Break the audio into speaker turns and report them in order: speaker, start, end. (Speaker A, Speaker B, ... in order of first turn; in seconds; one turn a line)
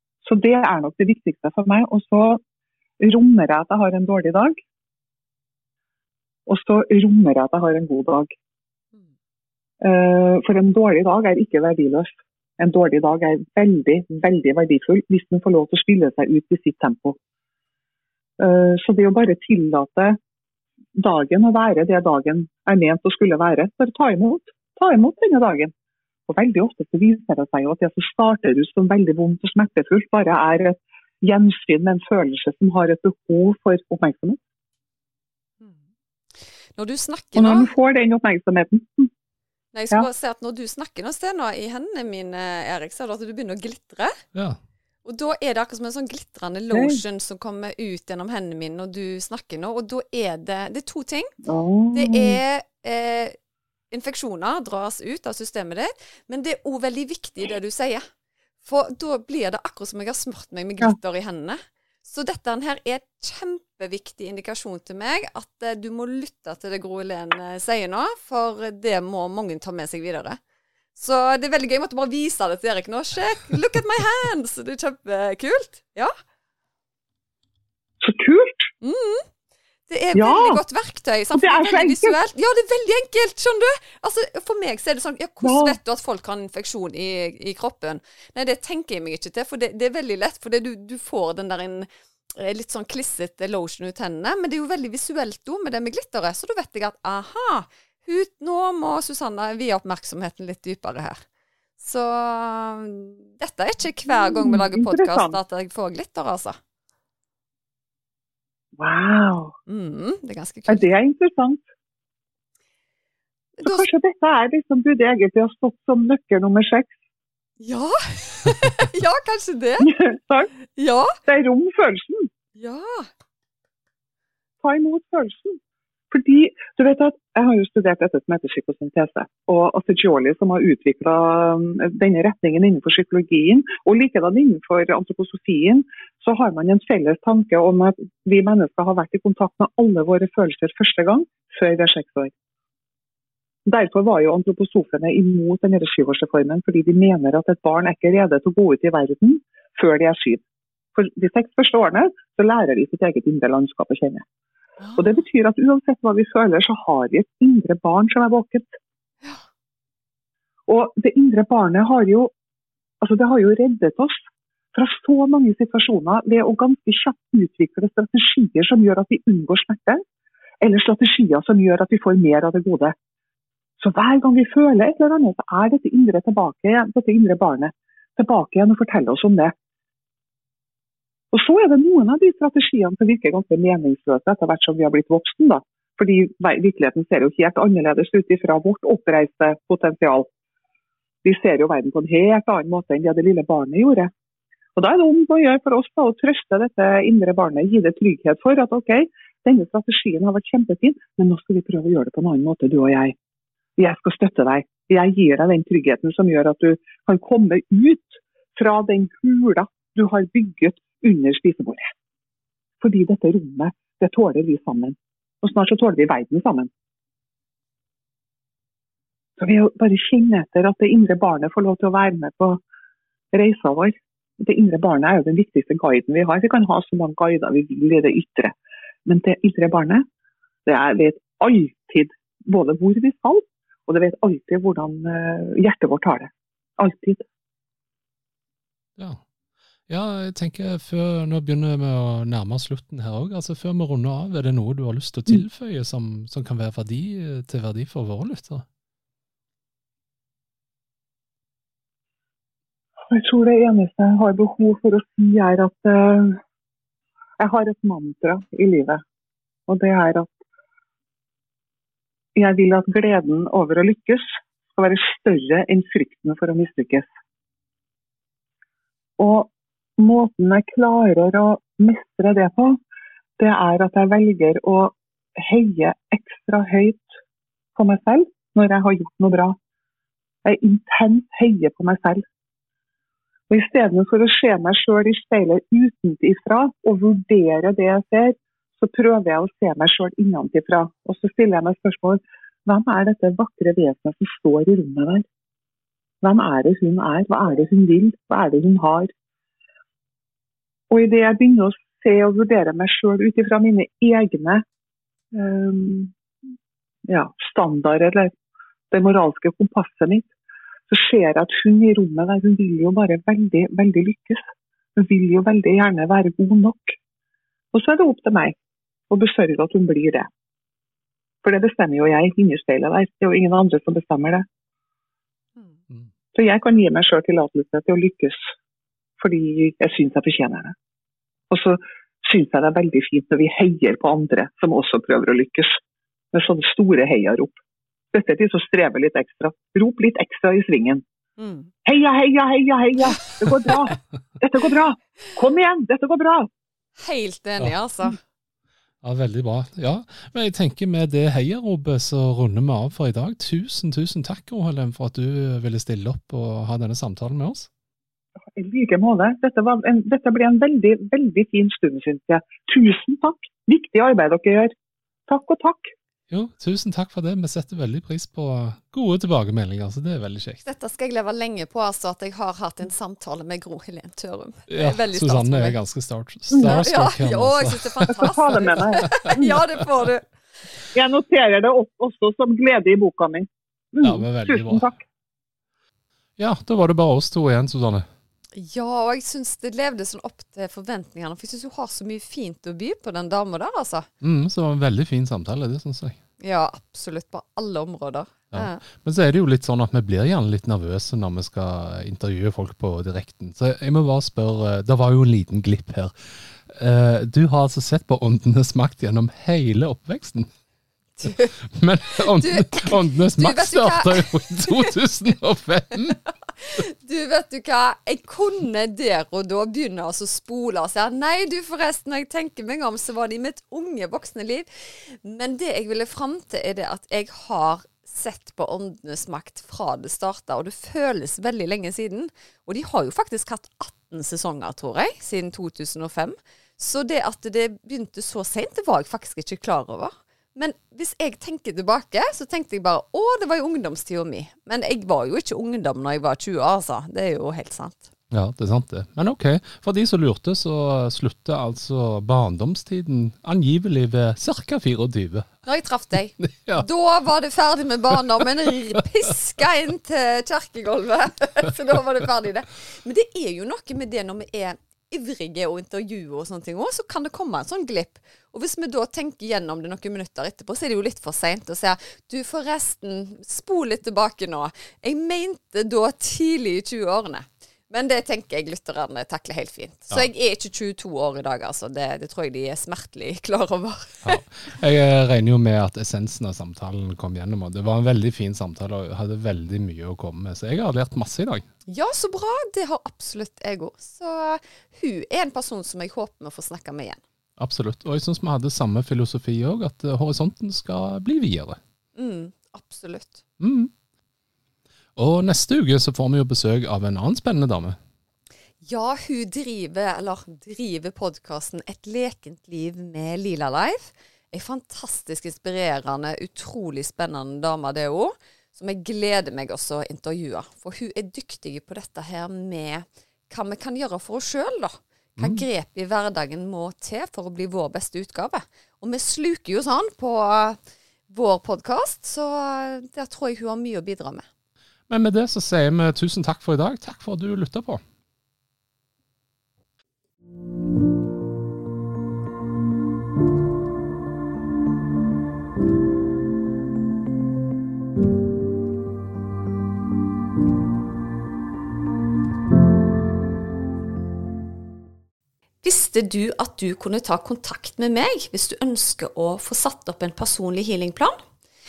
Speaker A: 0.2-2.4
Speaker A: 3.0-4.6
Speaker A: 6.5-8.3
Speaker A: 9.8-17.2
Speaker A: 18.4-20.2
Speaker A: 20.9-25.7
Speaker A: 26.3-34.4
Speaker B: 36.8-37.7
Speaker A: 37.4-39.1
Speaker B: 39.7-44.1
Speaker B: 45.0-51.3
Speaker A: 46.7-47.0
Speaker A: 51.4-52.4
Speaker B: 51.9-53.4
Speaker B: 53.9-58.0
Speaker B: 58.6-70.4
Speaker B: 71.0-76.1
Speaker A: 78.0-78.7
Speaker B: 78.8-79.2
Speaker B: 79.9-101.2
Speaker A: 80.1-80.6
Speaker A: 81.3-82.2
Speaker A: 85.4-85.8
Speaker B: 101.8-106.6
Speaker A: 104.1-105.4
Speaker A: 108.8-109.5
Speaker B: 109.7-110.9
Speaker A: 110.7-111.6
Speaker B: 113.6-113.9
Speaker A: 113.6-116.9
Speaker B: 117.6-120.0
Speaker A: 119.8-120.5
Speaker B: 120.7-121.2
Speaker A: 121.2-122.3
Speaker B: 122.5-123.1
Speaker A: 124.6-125.6
Speaker A: 126.1-142.3
Speaker A: 143.7-150.4
Speaker A: 150.9-154.2
Speaker B: 154.8-155.2
Speaker A: 155.0-158.7
Speaker A: 160.7-162.3
Speaker A: 163.0-170.0
Speaker A: 170.6-172.9
Speaker A: 173.8-179.5
Speaker A: 181.3-190.3
Speaker A: 191.2-194.1
Speaker A: 194.8-203.2
Speaker A: 203.8-211.9
Speaker A: 212.8-216.7
Speaker A: 219.4-222.6
Speaker A: 223.3-228.5
Speaker A: 229.1-230.0
Speaker A: 230.7-237.2
Speaker C: 239.9-248.6
Speaker A: 253.1-256.4
Speaker A: 257.4-259.0
Speaker A: 259.7-260.4
Speaker A: 262.4-267.1
Speaker A: 269.2-272.8
Speaker A: 273.4-277.2
Speaker A: 277.8-279.6
Speaker A: 280.4-282.2
Speaker A: 283.5-295.2
Speaker A: 296.2-299.1
Speaker A: 300.9-304.6
Speaker A: 305.3-306.1
Speaker A: 307.1-308.3
Speaker A: 308.9-310.3
Speaker A: 310.9-317.0
Speaker A: 317.7-318.6
Speaker A: 319.1-320.3
Speaker A: 321.4-324.4
Speaker A: 326.3-328.5
Speaker A: 329.2-330.7
Speaker A: 331.5-335.8
Speaker A: 336.3-337.6
Speaker A: 338.1-341.0
Speaker B: 341.4-341.7
Speaker A: 341.8-346.5
Speaker B: 347.0-348.2
Speaker C: 349.0-357.7
Speaker A: 358.5-364.7
Speaker A: 365.3-365.9
Speaker C: 366.3-370.6
Speaker B: 370.6-375.8
Speaker C: 374.7-379.3
Speaker A: 376.5-376.8
Speaker B: 376.6-380.3
Speaker A: 378.2-379.6
Speaker A: 380.9-384.9
Speaker C: 384.0-384.9
Speaker C: 386.4-388.1
Speaker B: 388.5-394.1
Speaker C: 394.2-396.2
Speaker B: 396.4-398.8
Speaker C: 398.5-406.1
Speaker C: 406.6-410.5
Speaker B: 411.2-411.5
Speaker C: 411.7-416.2
Speaker B: 412.2-414.9
Speaker B: 416.6-448.1
Speaker C: 448.3-455.5
Speaker B: 455.6-484.4
Speaker C: 456.4-456.9
Speaker C: 484.2-491.6
Speaker B: 491.9-497.2
Speaker C: 497.6-501.8
Speaker B: 502.1-503.4
Speaker C: 503.6-503.9
Speaker C: 505.1-507.9
Speaker B: 508.8-534.5
Speaker C: 525.4-525.6
Speaker C: 535.1-538.0
Speaker B: 555.8-561.4